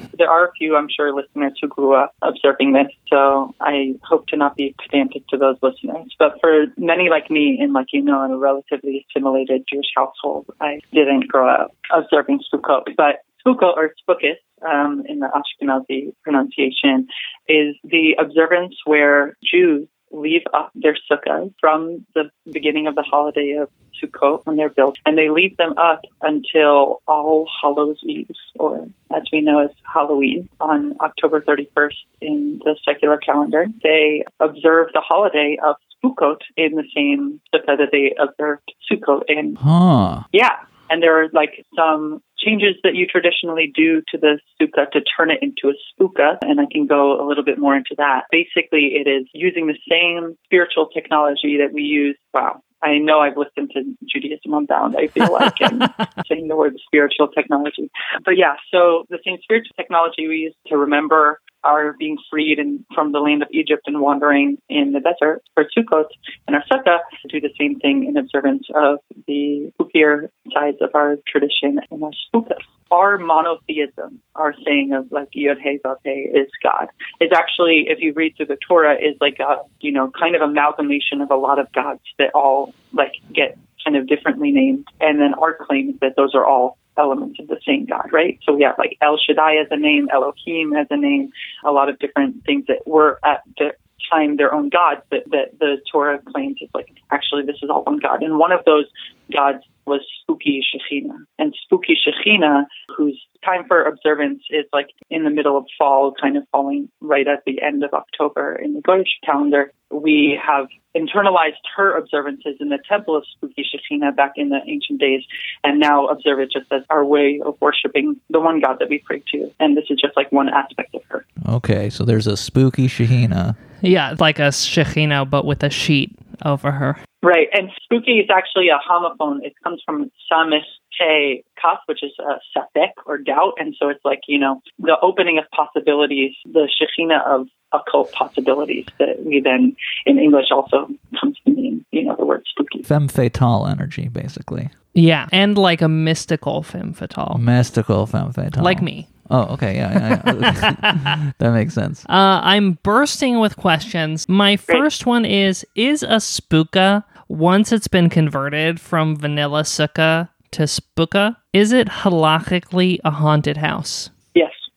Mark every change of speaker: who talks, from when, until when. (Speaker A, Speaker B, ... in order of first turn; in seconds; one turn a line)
Speaker A: 0.1-39.6
Speaker B: 39.6-40.2
Speaker A: 40.3-121.2
Speaker B: 121.4-123.5
Speaker C: 123.8-127.0
Speaker A: 127.2-142.8
Speaker B: 142.8-144.7
Speaker C: 144.9-147.4
Speaker B: 147.3-152.0
Speaker C: 148.6-149.1
Speaker C: 150.1-151.2
Speaker C: 152.1-164.1
Speaker A: 164.3-164.6